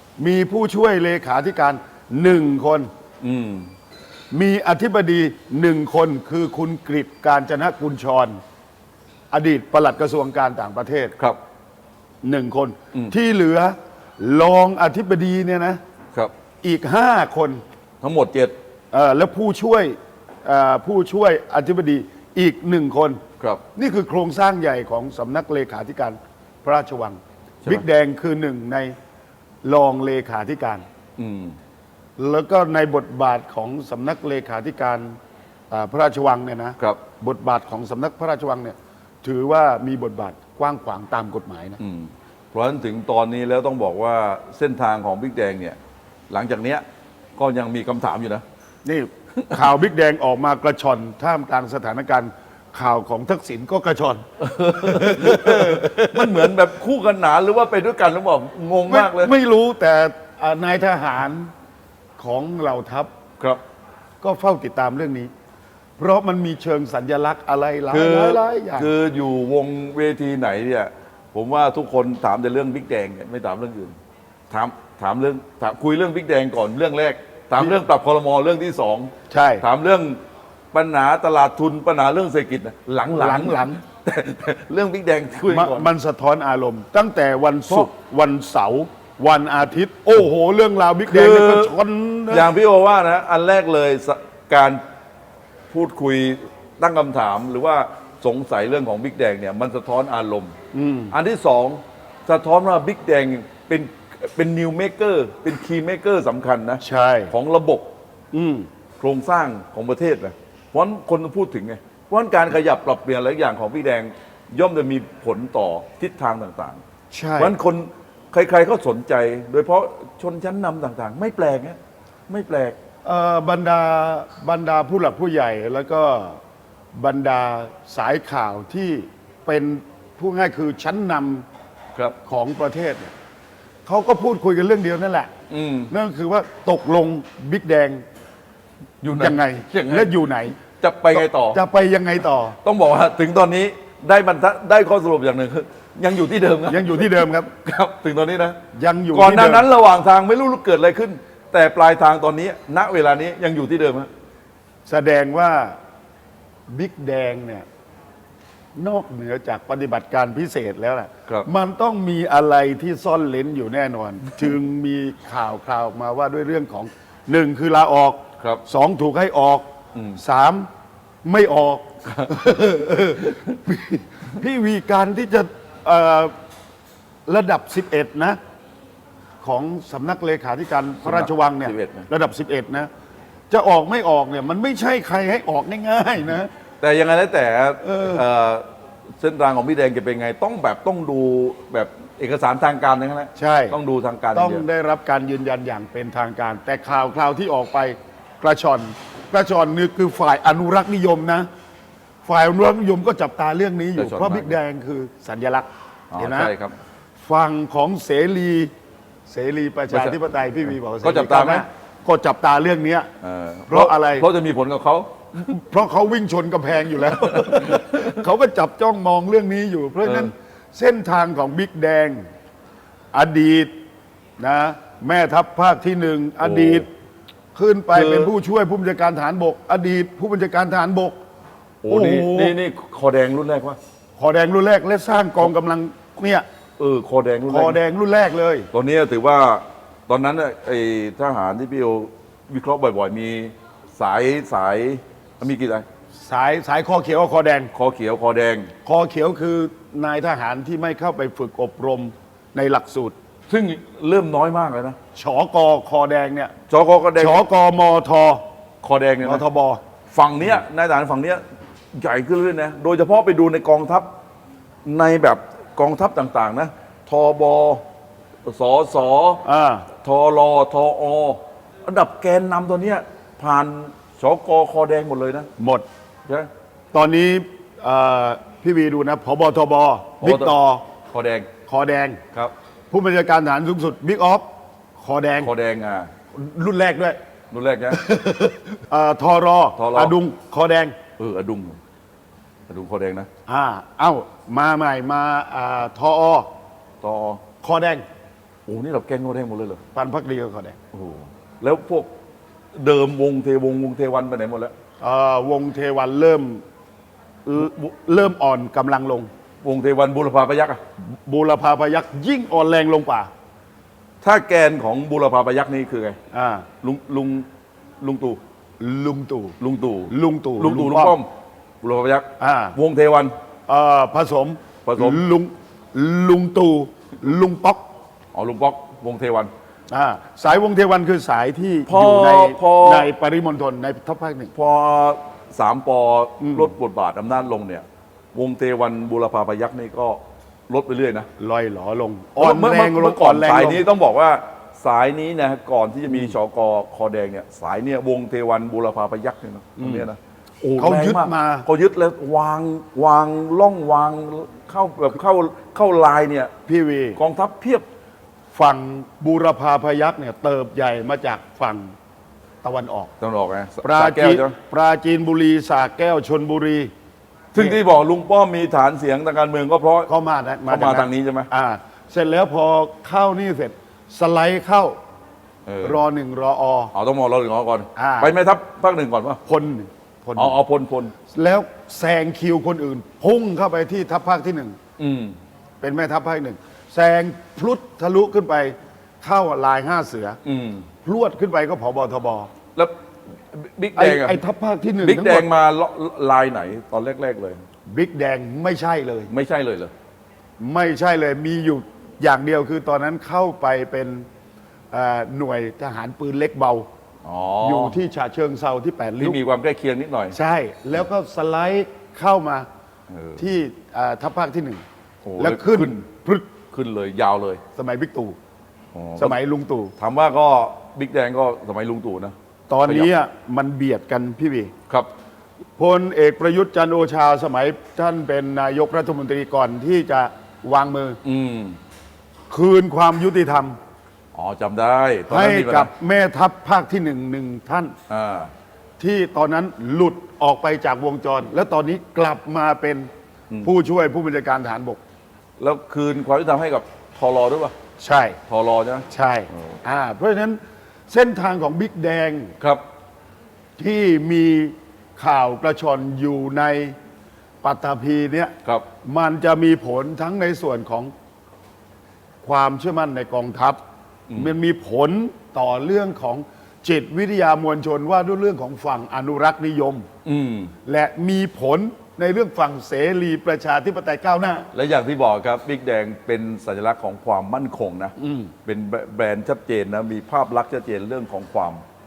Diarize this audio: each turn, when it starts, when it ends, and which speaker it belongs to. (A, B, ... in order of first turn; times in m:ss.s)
0:00.2-0:02.9 A
0:03.2-0:03.7 B
0:04.3-0:08.4 A
0:09.3-0:11.1 A
0:12.2-0:15.8 A
0:16.6-0:17.6 A
0:18.0-0:18.5 B
0:18.9-0:23.2 A
0:23.7-0:28.9 A
0:29.6-0:30.8 A
0:31.2-0:31.6 B
0:32.2-0:35.2 A
0:35.7-0:41.8 A
0:41.8-0:45.8 B
0:46.3-0:46.8 B
0:47.4-0:48.4 B
0:48.8-0:56.5 A
0:54.4-0:59.3 B
0:58.9-1:01.5 A
1:02.2-1:03.1 A
1:04.2-1:05.3 A
1:06.0-1:08.9 A
1:07.9-1:13.9 B
1:14.5-1:20.2 B
1:19.3-1:19.6 A
1:20.7-1:25.9 B
1:23.1-1:23.8 A
1:25.5-1:32.5 A
1:31.0-1:31.7 B
1:32.3-1:34.8 B
1:35.7-1:40.5 B
1:40.7-1:41.1 A
1:41.1-1:47.9 B
1:46.8-1:47.3 A
1:48.3-1:48.7 A
1:49.0-1:56.8 B
1:57.1-1:57.5 A
1:57.4-2:02.8 B
2:03.0-2:06.4 A
2:06.9-2:11.4 A
2:12.2-2:13.1 A
2:13.8-2:15.3 A
2:15.5-2:15.9 B
2:15.9-2:18.0 A
2:19.0-2:20.1 B
2:19.2-2:20.6 A
2:20.7-2:21.6 B
2:21.1-2:22.6 A
2:22.6-2:28.6 B
2:26.7-2:27.5 A
2:28.7-2:29.6 A
2:29.1-2:34.1 B
2:34.8-2:35.8 A
2:36.7-2:37.6 A
2:38.8-2:49.6 A
2:50.2-2:50.7 A
2:51.2-2:56.3 A
2:57.3-2:58.4 A
2:59.4-3:02.9 A
3:01.0-3:02.1 B
3:03.5-3:06.5 A
3:06.8-3:08.6 B
3:07.8-3:08.2 A
3:09.2-3:14.6 B
3:13.4-3:13.8 A
3:14.3-3:21.5 A
3:22.2-3:25.7 A
3:24.0-3:24.6 B
3:26.1-3:26.7 B
3:26.2-3:26.5 A
3:27.2-3:28.7 A
3:29.3-3:33.1 A
3:29.9-3:30.1 B
3:31.0-3:31.6 B
3:33.2-3:35.1 B
3:33.7-3:34.3 A
3:35.4-3:42.2 A
3:37.1-3:38.2 B
3:40.0-3:40.3 B
3:43.1-3:43.7 A
3:44.4-3:46.9 A
3:46.4-3:46.8 B
3:47.5-3:51.2 A
3:47.9-3:48.3 B
3:51.8-3:53.8 B
3:51.9-3:52.5 A
3:54.2-3:56.4 A
3:56.8-3:57.8 B
3:57.5-3:58.7 A
3:58.7-4:05.8 B
4:06.2-4:07.7 A
4:07.7-4:08.7 B
4:08.8-4:13.1 A
4:13.5-4:15.0 B
4:15.1-4:16.5 A
4:16.7-4:17.4 B
4:17.2-4:18.4 A
4:18.8-4:19.4 B
4:19.2-4:19.8 A
4:20.1-4:24.1 B
4:24.8-4:27.8 B
4:28.4-4:29.4 B
4:29.4-4:29.9 A
4:30.0-4:35.5 B
4:35.6-4:35.8 A
4:36.9-4:40.8 A
4:40.2-4:40.6 B
4:41.1-4:41.5 B
4:41.7-4:42.2 A
4:42.9-4:44.4 A
4:45.0-4:45.5 A
4:45.4-4:46.1 B
4:46.3-4:47.2 A
4:47.5-4:48.0 B
4:47.9-4:50.9 A
4:49.8-4:50.1 B
4:51.2-4:51.8 B
4:52.7-4:53.3 B
4:53.5-4:56.5 A
4:57.0-4:57.4 B
4:57.6-4:58.0 A
4:58.7-4:59.8 B
4:59.9-5:00.8 A
5:00.9-5:02.1 B
5:02.7-5:04.7 B
5:05.0-5:06.6 A
5:07.4-5:09.3 A
5:09.6-5:10.8 B
5:11.0-5:13.3 A
5:14.2-5:16.2 B
5:16.3-5:16.7 A
5:16.8-5:17.5 B
5:18.0-5:18.4 B
5:18.8-5:19.6 A
5:19.6-5:21.3 B
5:20.1-5:21.2 A
5:21.8-5:23.3 B
5:22.4-5:22.8 A
5:23.7-5:27.8 A
5:24.8-5:25.2 B
5:28.3-5:29.5 B
5:29.9-5:34.5 A
5:31.9-5:33.1 B
5:34.5-5:41.3 B
5:36.4-5:36.7 A
5:41.4-5:43.8 A
5:42.4-5:56.5 B
5:49.8-5:50.1 A
5:50.8-5:51.7 A
5:56.7-5:57.2 A
5:57.2-5:57.8 B
5:58.5-6:01.9 A
6:02.6-6:03.1 A
6:03.2-6:04.6 B
6:03.8-6:06.9 A
6:07.5-6:10.1 B
6:10.1-6:15.0 A
6:10.7-6:11.5 B
6:15.6-6:16.0 B
6:15.8-6:16.9 A
6:16.9-6:19.4 B
6:17.9-6:18.3 A
6:19.4-6:20.6 A
6:20.4-6:21.1 B
6:21.3-6:24.8 A
6:25.0-6:25.4 B
6:25.8-6:30.4 A
6:30.4-6:30.8 B
6:31.0-6:32.5 A
6:33.5-6:34.4 B
6:34.0-6:35.5 A
6:35.0-6:37.6 B
6:37.9-6:39.3 A
6:39.3-6:39.9 B
6:40.6-6:44.2 A
6:44.9-6:46.9 A
6:47.2-6:48.0 B
6:47.6-6:49.4 A
6:49.2-6:50.4 B
6:50.3-6:52.7 A
6:53.1-6:53.4 B
6:53.4-6:54.8 A
6:55.2-6:56.0 B
6:55.4-6:56.5 A
6:56.7-6:57.6 B
6:57.7-6:58.4 A
6:58.9-6:59.4 B
6:59.2-6:59.9 A
7:00.0-7:02.3 B
7:02.7-7:04.7 A
7:02.8-7:03.1 B
7:05.8-7:11.2 A
7:11.2-7:11.8 B
7:12.5-7:13.8 A
7:14.3-7:15.9 B
7:15.3-7:17.9 A
7:18.1-7:18.5 B
7:19.0-7:23.1 A
7:23.6-7:25.0 A
7:25.6-7:27.7 B
7:28.0-7:28.4 A
7:28.5-7:29.8 B
7:29.1-7:32.5 A
7:33.8-7:36.9 A
7:37.6-7:41.1 A
7:42.4-7:43.8 A
7:44.3-7:50.0 A
7:50.2-7:50.7 B
7:50.8-7:54.7 A
7:54.7-7:58.1 B
7:58.2-7:58.5 A
7:58.6-8:01.8 B